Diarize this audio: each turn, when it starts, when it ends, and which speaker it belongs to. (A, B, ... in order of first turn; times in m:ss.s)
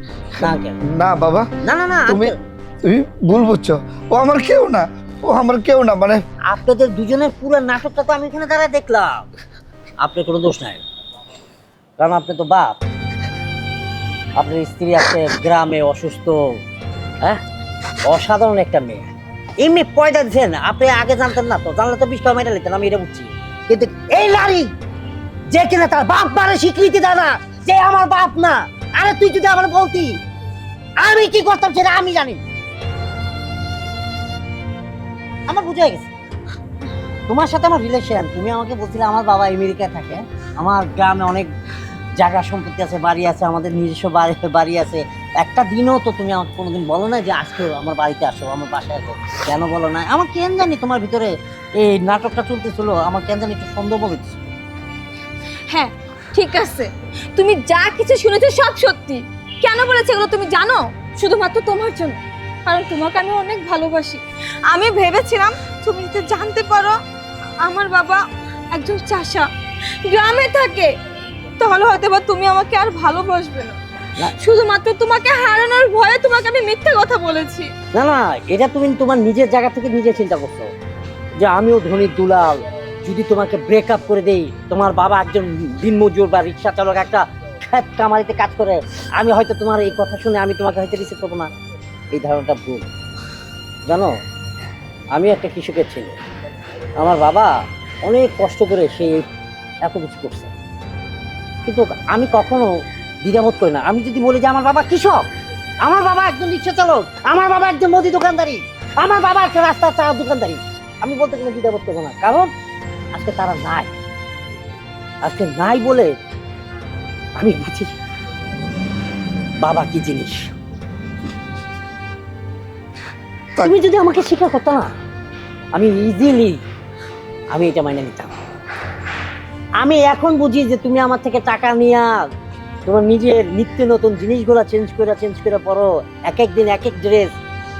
0:00.4-0:00.8 A
0:00.4-0:01.5 B
0:01.6-0:02.4 A
0:02.0-0:06.2 B
0:06.5-0:09.3 A
0:10.0-0:10.8 A
0:12.0-0:12.8 A
0:14.4-0:16.6 A
0:18.0-0:19.1 A
0:19.6-0:24.7 A
0:25.5-0:30.2 A
0:31.0-0:32.4 A
0:35.5-0:36.1 A
0:37.3-0:41.5 A
0:42.2-0:54.5 A
0:55.7-1:07.0 C
1:07.6-1:09.5 C
1:10.0-1:10.9 C
1:11.6-1:17.7 C
1:17.9-1:20.7 A
1:21.4-1:31.5 A
1:32.1-1:32.9 A
1:33.9-1:34.1 A
1:35.1-1:36.2 A
1:37.0-1:39.3 A
1:39.8-1:40.5 A
1:41.6-1:42.7 A
1:43.2-1:45.3 A
1:45.8-1:52.5 A
1:53.1-1:53.9 A
1:55.2-1:56.1 A
1:57.4-1:57.9 A
1:59.6-2:00.5 A
2:03.6-2:04.9 A
2:05.7-2:06.6 A
2:07.5-2:08.4 A
2:09.8-2:12.2 A
2:12.8-2:17.4 A